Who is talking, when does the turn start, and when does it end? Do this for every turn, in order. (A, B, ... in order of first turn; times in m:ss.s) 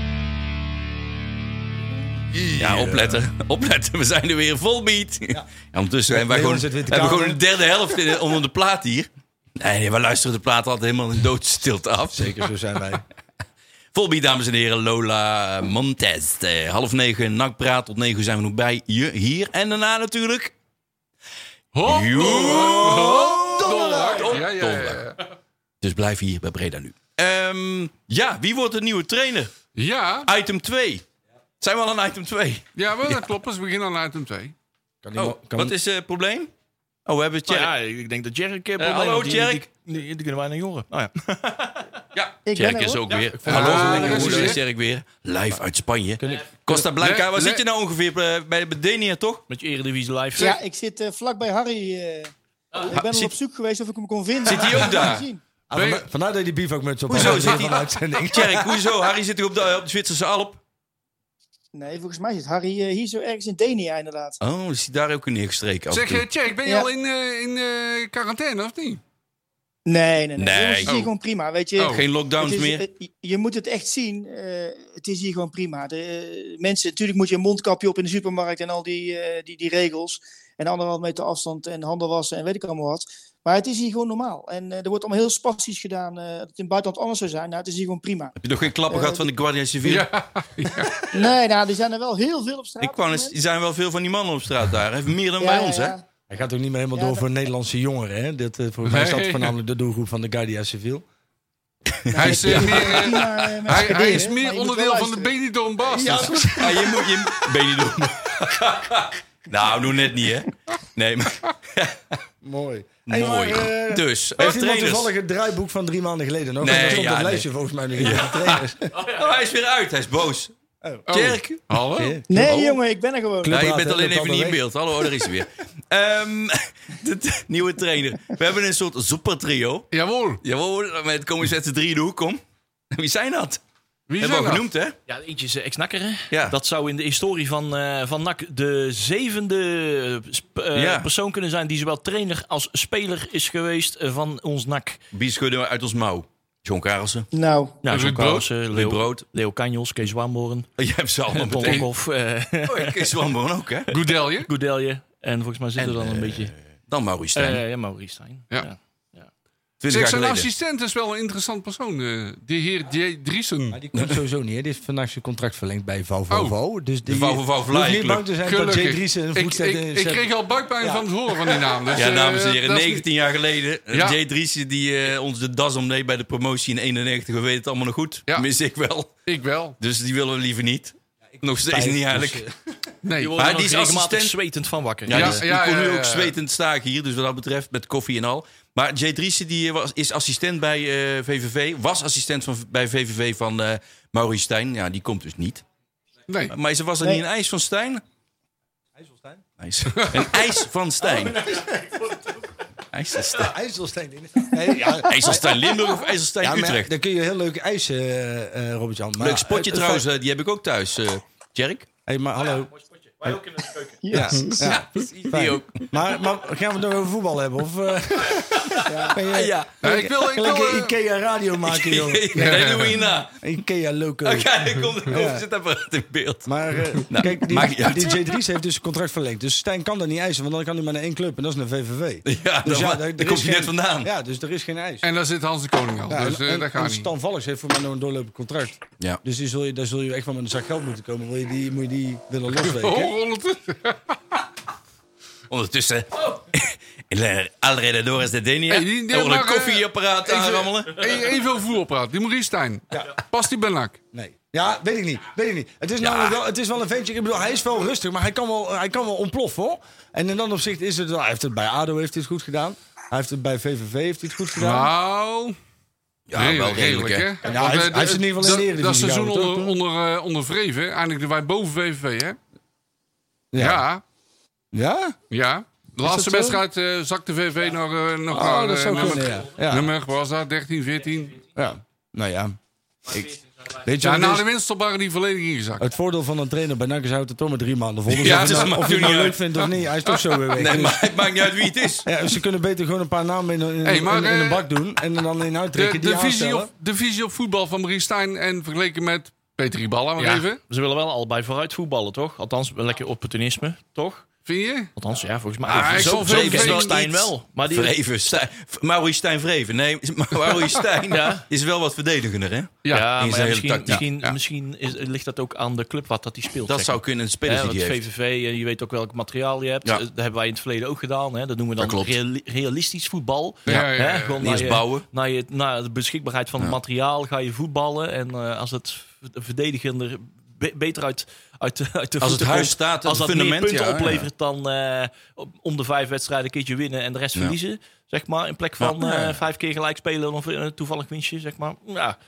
0:02.4-0:03.2 A
0:02.5-0:12.3 B
0:06.1-0:07.4 A
0:12.1-0:13.0 A
0:13.9-0:20.5 B
0:21.7-0:25.2 C
0:21.8-0:25.0 B
0:22.4-0:24.1 A
0:25.8-0:29.5 B
0:29.8-0:30.3 C
0:30.3-0:31.0 B
0:31.6-0:33.2 B
0:32.8-0:34.5 C
0:35.0-0:35.7 A
0:35.2-0:36.5 B
0:37.1-0:37.7 B
0:37.5-0:42.0 D
0:38.8-0:39.7 B
0:42.1-0:49.4 B
0:42.5-0:43.1 E
0:43.4-0:44.6 A
0:43.5-0:44.6 C
0:46.2-0:46.9 A
0:47.0-0:47.6 C
0:49.5-0:50.6 D
0:50.4-0:55.4 E
0:52.9-0:53.3 B
0:54.4-0:55.3 B
0:55.7-0:58.8 A
0:55.7-0:56.1 C
0:57.1-1:00.6 B
1:01.7-1:04.4 E
1:04.4-1:06.2 B
1:05.9-1:09.0 C
1:09.9-1:28.4 E
1:10.4-1:10.9 B
1:10.9-1:11.1 C
1:11.8-1:12.0 C
1:11.9-1:12.8 B
1:28.4-1:30.1 B
1:28.9-1:29.3 E
1:29.8-1:31.0 C
1:31.1-1:33.4 E
1:32.8-1:36.0 B
1:35.4-1:36.1 E
1:36.3-1:41.0 A
1:37.0-1:37.2 E
1:38.8-1:39.5 C
1:42.0-1:43.3 B
1:42.1-1:45.3 E
1:42.2-1:46.6 C
1:42.3-1:42.8 A
1:45.9-1:47.1 A
1:46.0-1:46.5 E
1:46.5-1:52.2 B
1:47.7-1:48.0 A
1:52.4-1:58.9 A
1:53.1-1:55.1 B
1:56.6-2:00.5 B
2:00.8-2:01.1 A
2:01.1-2:01.6 B
2:01.1-2:02.2 C
2:01.9-2:02.7 A
2:02.3-2:03.6 E
2:02.4-2:02.7 B
2:03.4-2:05.2 A
2:03.5-2:09.9 B
2:09.9-2:10.4 C
2:10.4-2:12.4 B
2:12.9-2:13.6 B
2:14.1-2:14.6 C
2:14.2-2:15.0 B
2:15.1-2:25.0 D
2:16.3-2:16.6 B
2:20.7-2:21.1 B
2:25.1-2:27.3 B
2:27.3-2:27.8 E
2:27.8-2:30.7 D
2:27.9-2:28.5 C
2:28.7-2:29.2 B
2:30.8-2:31.9 B
2:31.3-2:33.2 D
2:32.7-2:33.9 B
2:33.9-2:34.5 C
2:34.3-2:36.5 D
2:35.8-2:37.6 B
2:37.4-2:39.3 D
2:39.8-2:40.5 B
2:39.9-2:43.8 C
2:43.7-2:50.3 A
2:46.3-2:46.6 C
2:47.1-2:48.2 B
2:48.4-2:53.1 C
2:50.8-2:51.7 A
2:51.9-2:59.1 B
2:53.9-2:54.2 C
2:59.2-2:59.8 C
2:59.8-3:02.4 B
3:01.3-3:02.6 A
3:03.0-3:03.4 C
3:03.1-3:05.4 D
3:03.4-3:04.4 B
3:05.1-3:15.6 B
3:05.1-3:06.4 C
3:16.3-3:16.5 C
3:16.5-3:18.0 B
3:19.0-3:19.4 A
3:19.6-3:21.4 B
3:20.0-3:20.3 C
3:21.0-3:22.4 A
3:22.9-3:23.6 B
3:23.3-3:25.6 A
3:24.6-3:25.0 E
3:25.1-3:26.9 B
3:26.4-3:30.0 A
3:29.2-3:31.9 B
3:32.1-3:32.7 A
3:32.4-3:34.0 D
3:34.0-3:34.8 E
3:34.1-3:42.7 A
3:34.6-3:35.9 B
3:38.8-3:39.8 B
3:38.8-3:39.2 E
3:39.8-3:40.9 C
3:41.7-3:43.3 B
3:42.4-3:43.0 C
3:43.4-3:45.4 A
3:44.2-3:46.5 B
3:46.5-3:55.0 A
3:47.1-3:48.3 B
3:52.2-3:54.1 B
3:55.0-3:57.1 C
3:56.1-4:03.1 A
4:02.5-4:04.4 C
4:05.5-4:11.1 B
4:08.7-4:14.0 C
4:14.1-4:24.9 A
4:16.0-4:16.4 B
4:24.6-4:25.6 C
4:26.3-4:27.3 B
4:26.4-4:32.4 C
4:27.4-4:29.8 A
4:33.5-4:33.8 A
4:33.6-4:34.0 C
4:34.7-4:35.2 A
4:35.3-4:41.4 C
4:36.0-4:36.6 A
4:38.3-4:39.9 A
4:41.6-4:44.5 A
4:44.0-4:45.9 C
4:45.8-4:51.2 A
4:48.1-4:49.4 B
4:48.2-4:50.4 C
4:50.5-4:52.1 B
4:52.0-4:56.7 A
4:53.8-4:54.6 C
4:55.8-5:00.6 C
5:00.2-5:04.3 D
5:04.5-5:04.9 C
5:05.0-5:08.0 D
5:05.7-5:07.0 C
5:05.7-5:14.0 B
5:11.1-5:11.5 D
5:12.8-5:13.1 C
5:12.9-5:42.2 D
5:14.0-5:14.4 C
5:16.7-5:18.0 B
5:21.8-5:22.2 B
5:23.7-5:24.4 C
5:24.4-5:25.1 B
5:32.2-5:34.3 B
5:38.8-5:39.4 B